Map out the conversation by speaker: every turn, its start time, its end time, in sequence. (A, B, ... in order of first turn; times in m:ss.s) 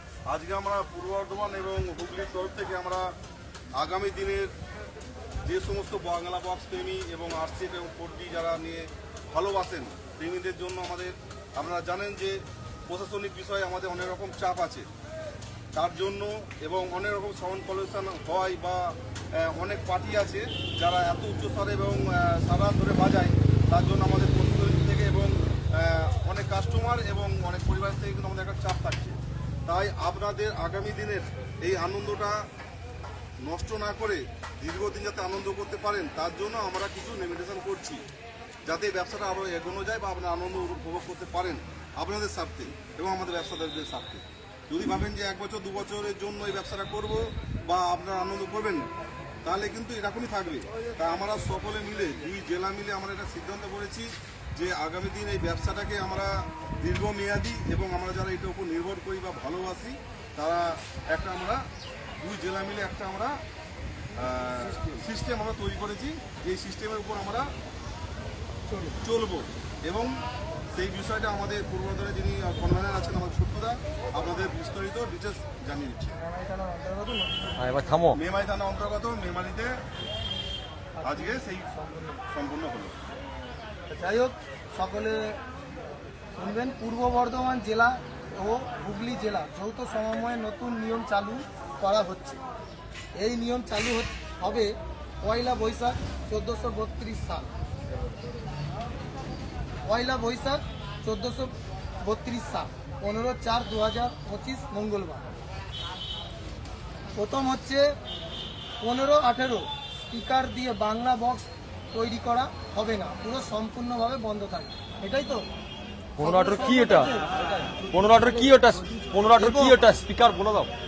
0:00.3-0:03.1 A
0:03.8-0:04.5 A
0:05.4-0:14.9 A
0:15.7-0:32.5 A
0:33.4-0:38.0 A
0:38.7-0:48.9 A
0:49.4-1:01.6 A
1:02.2-1:03.4 A
1:04.2-1:07.5 A
1:09.0-1:10.2 A
1:10.7-1:16.2 A
1:16.3-1:17.4 B
1:17.6-1:18.2 C
1:18.1-1:19.8 A
1:21.0-1:23.0 A
1:23.9-1:25.4 B
1:26.4-1:32.4 B
1:33.2-1:37.5 B
1:39.9-1:45.2 B
1:47.2-1:47.8 B
1:48.8-1:55.5 B
1:56.2-1:57.1 C
1:56.2-1:57.2 B
1:57.7-2:00.7 C
1:59.4-1:59.8 B